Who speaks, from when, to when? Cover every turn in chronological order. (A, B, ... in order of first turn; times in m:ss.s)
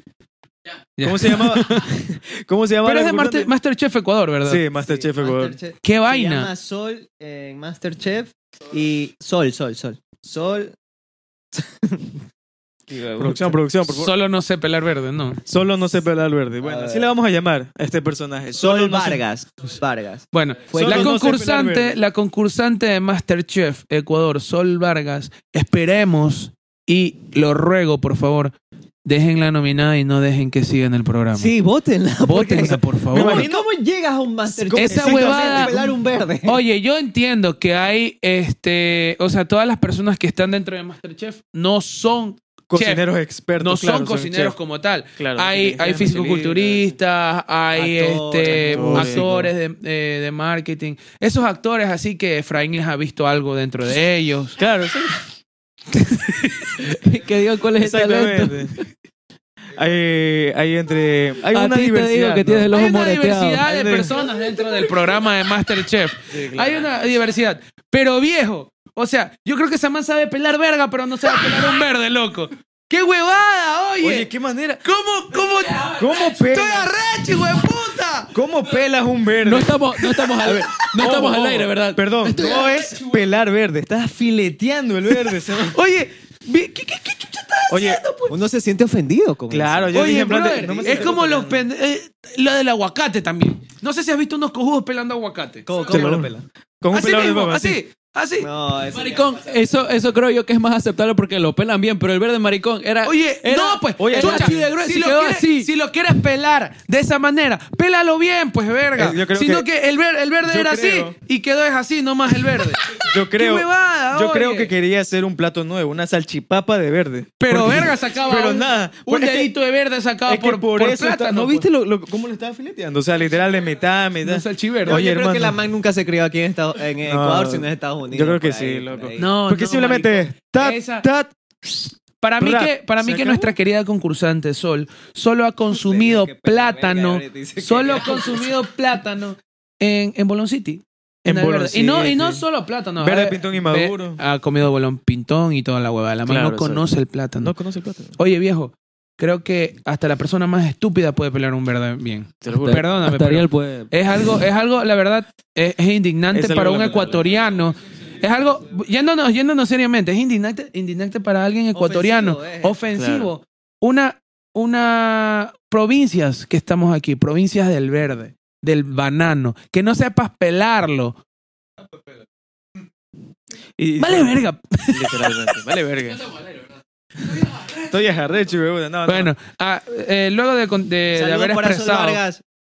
0:01.0-0:01.9 A
0:01.0-0:03.5 B
0:02.8-0:04.6 A
0:04.4-0:05.6 B
0:04.8-0:10.8 C
0:05.8-0:06.5 A
0:11.5-0:12.1 C
0:12.9-0:13.6 C
0:13.2-0:14.1 B
0:13.8-0:15.4 A
0:15.5-0:19.2 B
0:16.6-0:17.1 C
0:18.6-0:21.2 C
0:20.3-0:31.5 A
0:20.7-0:22.0 B
0:31.3-0:36.6 C
0:32.2-0:33.5 A
0:33.1-0:33.6 B
0:34.5-0:35.9 B
0:34.7-0:35.9 A
0:36.4-0:43.0 A
0:42.7-0:44.5 B
0:43.6-0:54.6 A
0:45.2-0:47.0 B
0:47.7-0:49.5 C
0:48.5-0:49.2 B
0:54.6-0:55.3 B
0:56.0-0:56.7 A
0:56.8-0:58.9 D
0:57.8-0:58.8 B
0:59.7-1:02.7 B
1:01.5-1:03.6 D
1:02.7-1:14.3 A
1:03.6-1:04.2 B
1:06.3-1:06.9 B
1:14.0-1:14.8 B
1:14.8-1:18.3 A
1:16.0-1:16.9 B
1:18.3-1:19.8 B
1:19.4-1:22.8 D
1:20.0-1:21.3 A
1:20.4-1:25.8 B
1:22.4-1:23.2 A
1:25.6-1:28.4 A
1:27.7-1:28.0 B
1:28.3-1:30.3 C
1:29.5-1:31.6 B
1:29.9-1:36.1 A
1:35.7-1:36.4 C
1:35.8-1:37.8 B
1:36.9-1:38.5 A
1:38.4-1:39.6 C
1:38.9-1:45.7 D
1:43.0-1:54.7 A
1:44.0-1:44.7 B
1:49.0-1:49.7 B
1:50.4-1:51.2 B
1:53.0-1:59.5 B
1:57.4-2:01.7 A
2:00.2-2:05.6 B
2:04.2-2:05.0 A
2:04.9-2:09.3 C
2:07.0-2:13.5 B
2:09.2-2:11.1 A
2:12.2-2:27.5 A
2:15.7-2:18.5 C
2:21.2-2:22.4 B
2:23.0-2:24.2 B
2:26.2-2:28.2 B
2:28.2-2:51.2 A
2:32.4-2:32.9 B
2:32.5-2:33.9 D
2:36.3-2:37.4 B
2:41.7-2:42.8 C
2:42.9-2:43.3 B
2:53.8-2:56.2 B
2:54.0-2:55.6 A
2:57.6-2:59.3 B
2:59.0-3:02.2 A
3:01.1-3:02.4 C